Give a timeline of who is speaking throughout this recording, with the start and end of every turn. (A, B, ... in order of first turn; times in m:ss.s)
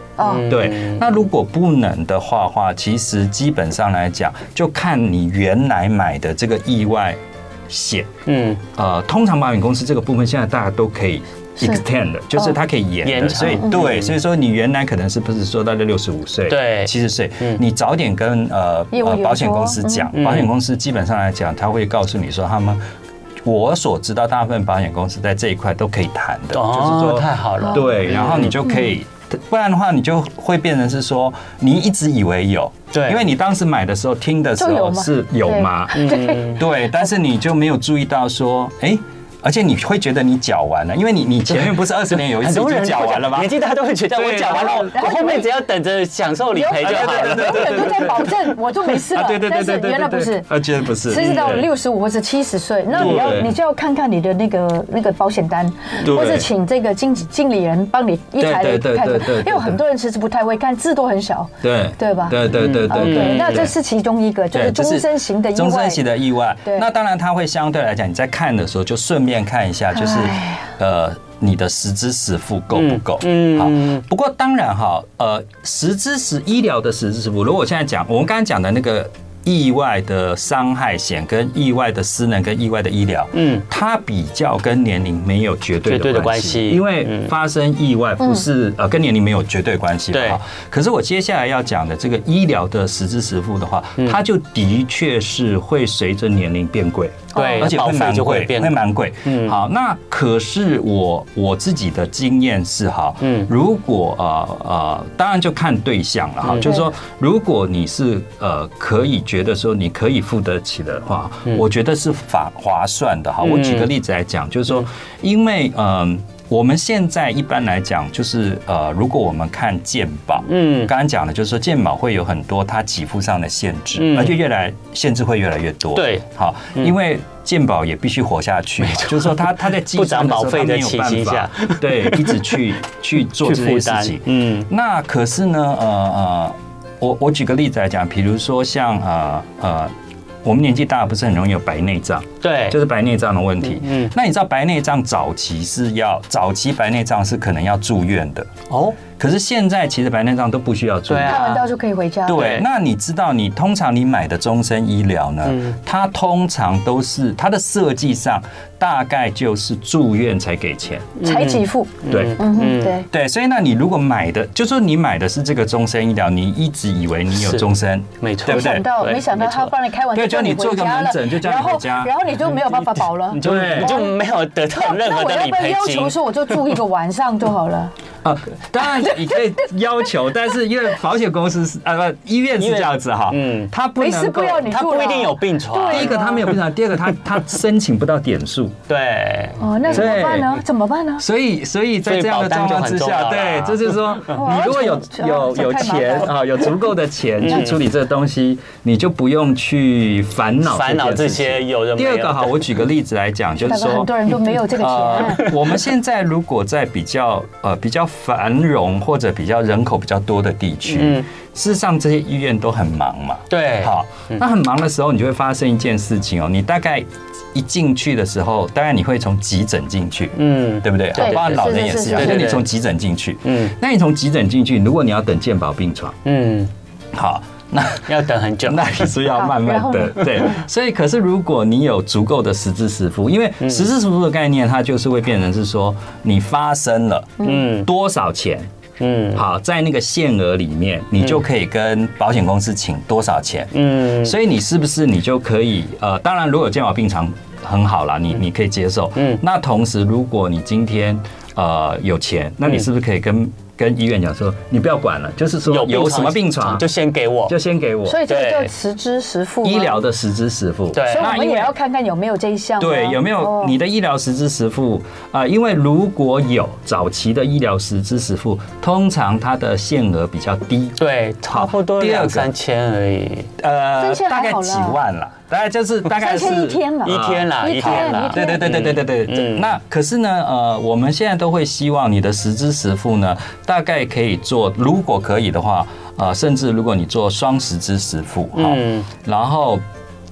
0:00.2-0:00.5 A
0:00.2-0:01.0 B
0:00.4-0:08.1 C
0:08.3-0:08.6 B
0:08.7-0:22.8 C
0:13.0-0:14.2 B
0:16.5-0:17.6 B
0:18.9-0:20.1 A
0:20.1-0:20.5 B
0:23.4-0:43.6 C
0:26.5-0:28.6 B
0:32.9-0:33.2 B
0:34.6-0:36.5 A
0:35.9-0:36.6 B
0:42.2-0:48.3 B
0:44.1-0:45.0 C
0:44.5-0:45.5 A
0:46.5-0:50.5 A
0:46.8-0:51.7 C
0:51.0-1:06.0 A
0:51.2-0:51.6 B
0:52.9-0:53.5 C
0:53.0-0:53.4 B
0:56.0-0:56.5 C
0:58.4-0:59.8 C
1:01.6-1:03.8 C
1:02.5-1:03.7 B
1:04.5-2:19.9 C
1:09.9-1:10.7 A
1:12.7-1:14.0 B
1:23.3-1:23.6 B
1:25.8-1:27.3 B
1:30.1-1:30.4 B
1:37.3-1:37.7 A
1:37.3-1:39.6 B
1:43.2-1:43.5 B
1:46.4-1:46.8 B
1:53.4-1:53.9 B
2:00.5-2:00.9 B
2:04.0-2:04.4 B
2:05.9-2:06.2 B
2:08.8-2:12.7 B
2:13.2-2:14.7 B
2:20.4-2:28.5 C
2:22.4-2:22.8 B
2:23.7-2:24.1 B
2:28.7-2:29.0 B
2:29.2-2:31.5 C
2:31.1-2:31.7 B
2:31.2-2:32.4 A
2:32.2-2:41.2 C
2:32.3-2:32.6 B
2:35.4-2:35.8 B
2:41.2-2:43.0 B
2:41.2-2:43.1 A
2:42.1-2:42.4 C
2:43.1-2:48.9 C
2:47.3-2:47.6 B
2:48.2-2:49.7 B
2:48.5-2:54.1 A
2:50.1-2:52.1 C
2:52.5-2:56.6 B
2:53.4-2:54.0 C
2:54.8-2:57.9 A
2:58.2-3:04.8 C
3:02.6-3:03.7 B
3:04.0-3:06.5 A
3:04.6-3:06.5 B
3:05.9-3:08.8 C
3:08.9-3:10.6 B
3:09.6-3:11.2 A
3:09.9-3:10.6 C
3:11.2-3:46.2 C
3:12.0-3:14.2 B
3:14.3-3:16.7 A
3:17.4-3:17.8 B
3:17.5-3:17.7 A
3:20.6-3:22.8 B
3:23.6-3:25.5 A
3:25.4-3:25.6 B
3:30.9-3:31.2 B
3:33.5-3:34.4 B
3:40.4-3:42.7 B
3:41.2-3:42.4 A
3:43.4-3:43.7 B
3:46.2-3:46.7 B
3:47.1-3:48.1 C
3:48.0-3:49.2 B
3:48.6-3:58.7 C
3:49.3-3:50.6 A
3:53.6-3:53.9 B
3:57.4-3:57.9 B
3:59.0-3:59.4 B
3:59.3-4:16.8 C
4:03.7-4:04.4 B
4:15.6-4:17.5 B
4:17.5-4:18.2 C
4:18.0-4:20.0 A
4:18.3-4:18.7 B
4:19.6-4:21.7 C
4:20.9-4:21.3 B
4:21.0-4:23.7 A
4:22.8-4:32.5 C
4:31.0-4:33.5 B
4:33.6-4:49.8 C
4:34.0-4:35.0 A
4:36.1-4:38.9 A
4:37.0-4:39.7 B
4:48.5-4:49.1 B